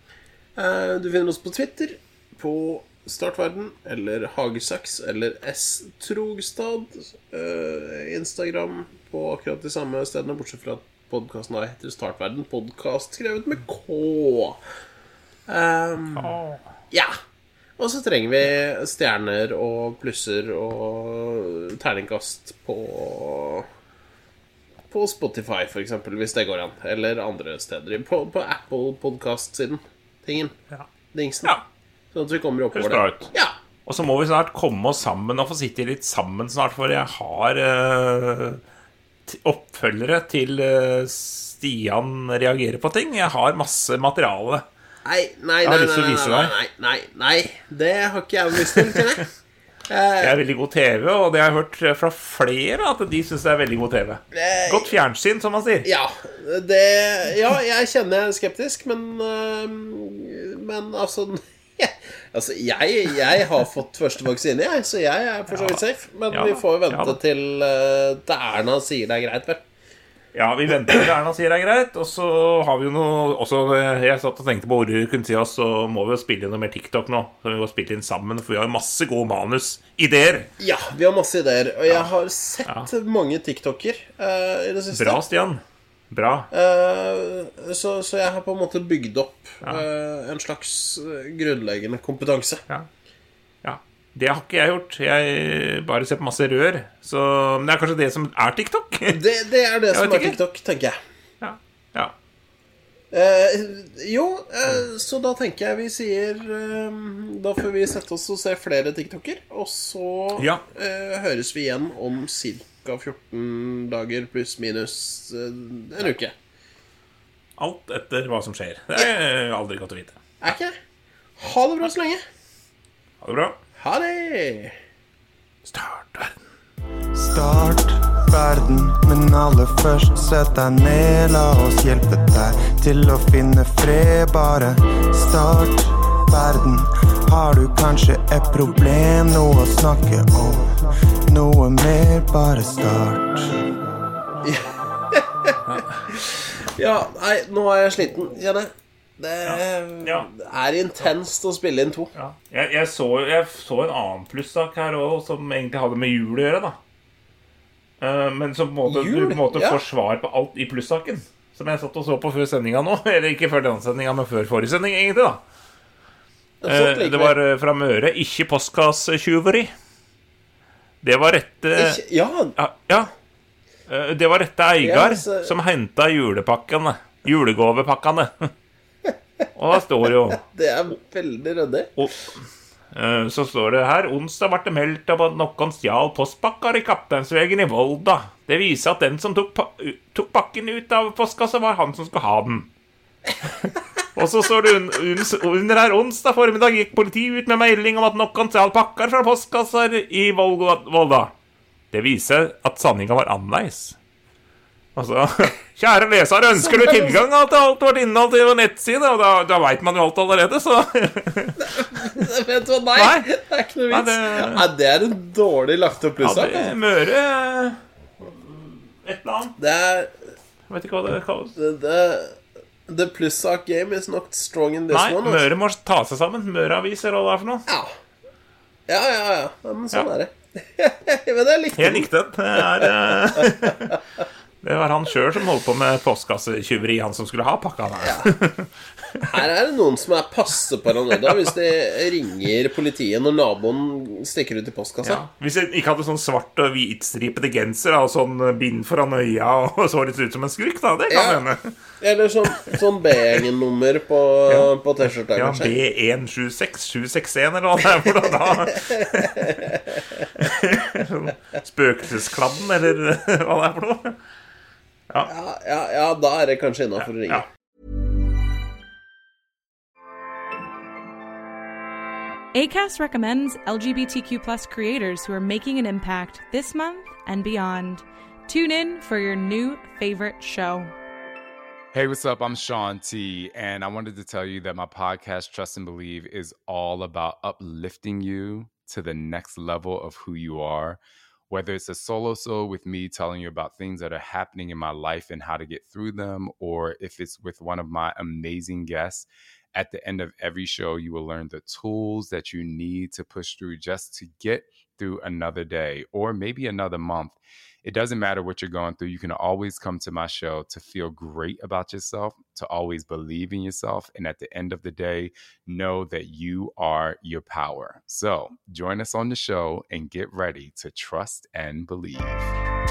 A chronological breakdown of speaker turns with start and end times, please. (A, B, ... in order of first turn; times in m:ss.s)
0:00.6-0:14.6 A
0:15.5-0:16.3 A
0:16.1-0:16.6 B
0:17.8-0:23.6 A
0:24.9-0:30.5 A
0:31.1-0:31.6 A
0:32.1-0:33.5 A
0:32.7-0:33.3 B
0:33.8-0:38.6 B
0:39.3-0:44.6 B
0:45.0-0:49.3 A
0:45.6-0:46.5 B
0:49.9-0:50.4 A
0:50.2-0:55.9 B
0:54.3-0:54.9 A
0:55.8-1:09.6 A
1:05.5-1:05.8 B
1:06.3-1:07.2 B
1:10.3-1:20.5 B
1:20.6-1:25.2 A
1:24.9-1:26.5 B
1:26.5-1:32.6 A
1:33.6-1:39.2 B
1:39.1-1:41.0 A
1:39.9-1:40.4 B
1:41.4-1:42.1 B
1:43.1-1:56.3 A
1:50.4-1:50.6 B
1:57.6-2:00.2 B
2:00.4-2:00.8 A
2:01.4-2:02.2 A
2:03.2-2:03.6 B
2:03.8-2:04.7 A
2:05.7-2:06.4 B
2:07.1-2:23.7 C
2:24.4-2:32.1 A
2:25.7-2:26.0 B
2:29.4-2:30.3 B
2:32.1-2:36.8 B
2:38.0-2:45.4 B
2:38.8-2:39.8 A
2:46.6-2:47.4 A
2:46.7-2:49.7 B
2:51.0-2:52.0 B
2:51.8-2:52.5 A
2:52.6-2:53.1 B
2:53.9-2:58.5 B
2:54.8-2:55.5 A
2:59.5-3:00.4 B
3:00.3-3:02.0 A
3:02.0-3:12.7 B
3:13.4-3:21.3 B
3:21.9-3:24.0 B
3:25.0-3:32.0 B
3:26.5-3:27.2 A
3:31.6-3:36.7 A
3:33.0-3:33.3 B
3:33.9-3:34.6 B
3:36.2-3:37.8 B
3:39.0-3:39.6 B
3:39.6-3:40.1 A
3:40.7-3:41.6 B
3:41.6-3:42.4 A
3:42.9-3:45.4 A
3:44.9-3:47.6 B
3:47.7-3:47.9 A
3:48.9-3:54.0 A
3:51.8-3:54.0 B
3:54.6-3:59.4 B
3:58.0-3:58.3 A
3:59.2-4:05.2 A
4:05.0-4:11.7 B
4:11.1-4:11.4 A
4:12.0-4:15.7 A
4:15.3-4:19.6 B
4:18.1-4:20.3 A
4:20.4-4:24.2 B
4:25.2-4:27.4 A
4:32.5-4:40.9 D
4:41.9-5:22.5 E